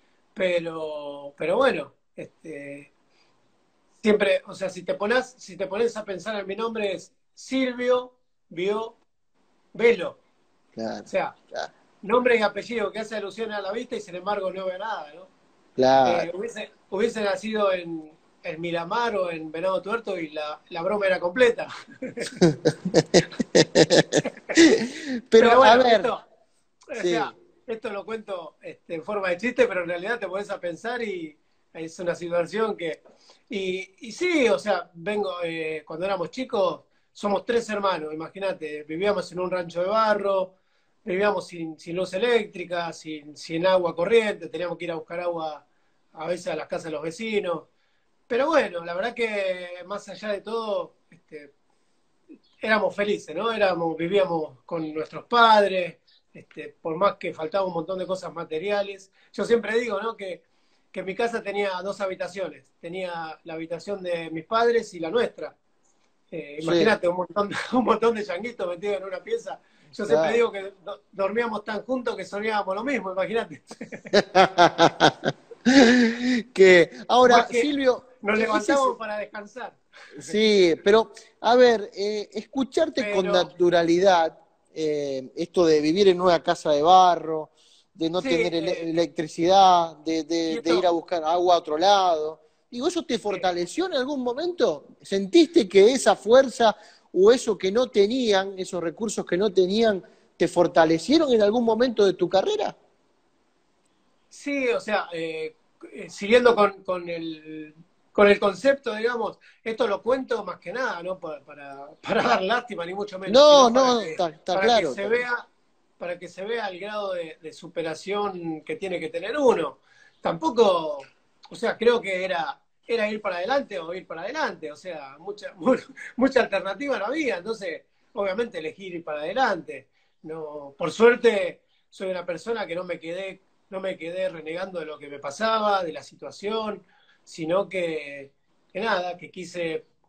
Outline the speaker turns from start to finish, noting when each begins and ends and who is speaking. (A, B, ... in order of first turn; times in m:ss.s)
0:00.3-0:02.9 A
0:04.0-0:09.0 A
0:09.7-0:10.2 A
0:10.8-0:11.7 B
0:11.0-0:11.4 A
0:12.0-0:15.3 A
0:15.8-0:16.3 B
0:16.0-0:22.4 A
0:22.4-0:26.1 B
0:25.4-0:26.2 A
0:26.9-0:33.0 A
0:27.0-0:27.3 B
0:33.5-0:40.5 A
0:41.0-0:47.7 A
0:48.3-0:51.5 A
0:52.6-1:05.6 A
1:06.3-1:14.1 A
1:06.6-1:06.9 B
1:10.0-1:10.4 B
1:14.1-1:18.9 B
1:17.2-1:17.7 A
1:18.2-1:20.4 A
1:20.2-1:42.8 B
1:23.0-1:23.5 A
1:28.2-1:28.9 A
1:30.5-1:30.8 A
1:44.3-1:55.4 A
1:53.3-1:55.2 B
1:56.0-2:19.8 A